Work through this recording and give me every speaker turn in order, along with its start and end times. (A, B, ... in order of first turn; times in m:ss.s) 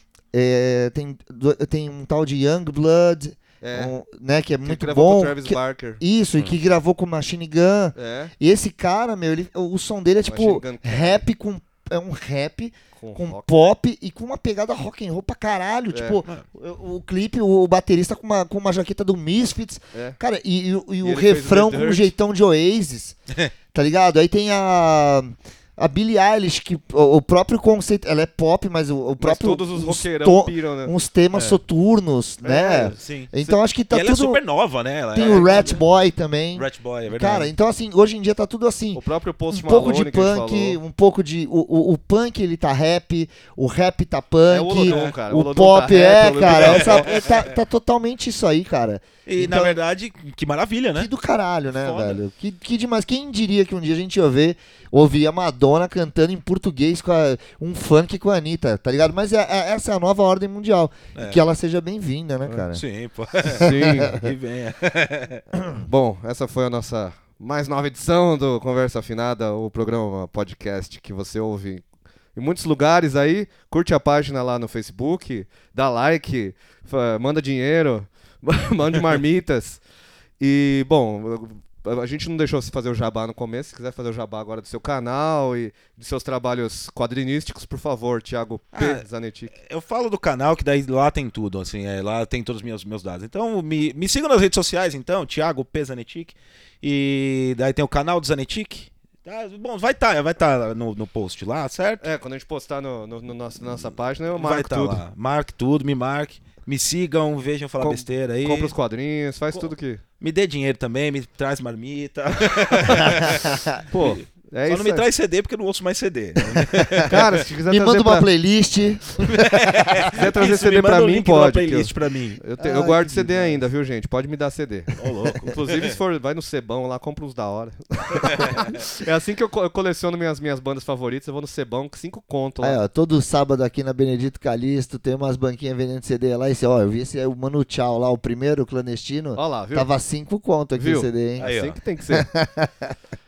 0:00.3-0:23.2 A
0:03.6-0:03.9 B
0:04.6-0:06.0 B
0:08.0-0:08.3 B
0:10.3-0:11.2 B
0:13.0-0:13.5 B
0:15.9-0:16.2 B
0:19.9-0:20.2 B
0:21.0-0:22.1 B
0:23.7-0:34.4 A
0:29.2-0:30.9 B
0:31.3-0:31.6 C
0:32.4-0:33.5 B
0:33.0-0:33.3 C
0:33.9-0:35.8 C
0:35.1-0:49.8 A
0:35.2-0:35.8 B
0:36.5-0:37.5 C
0:38.9-0:40.8 B
0:44.5-0:47.2 B
0:44.9-0:45.1 C
0:46.4-0:47.5 C
0:49.2-0:51.1 C
0:51.0-1:02.8 A
0:51.7-0:52.2 C
1:01.1-1:01.4 C
1:02.7-1:05.4 C
1:03.5-1:04.2 B
1:03.6-1:04.3 A
1:05.8-1:11.8 B
1:12.3-1:19.8 B
1:20.4-1:29.5 B
1:28.7-1:42.0 C
1:42.0-1:45.0 B
1:44.3-1:48.7 C
1:47.8-1:50.0 B
1:49.5-1:57.4 C
1:53.0-1:53.8 A
1:53.9-1:55.0 B
1:56.5-1:57.1 A
1:57.1-1:58.3 B
1:57.7-2:00.1 A
1:59.3-2:02.4 C
2:00.1-2:12.8 B
2:02.6-2:03.6 A
2:05.0-2:05.9 C
2:08.2-2:08.7 C
2:12.6-2:21.5 A
2:19.4-2:19.9 B
2:20.8-2:22.3 B
2:21.4-2:21.8 C
2:22.1-2:23.0 A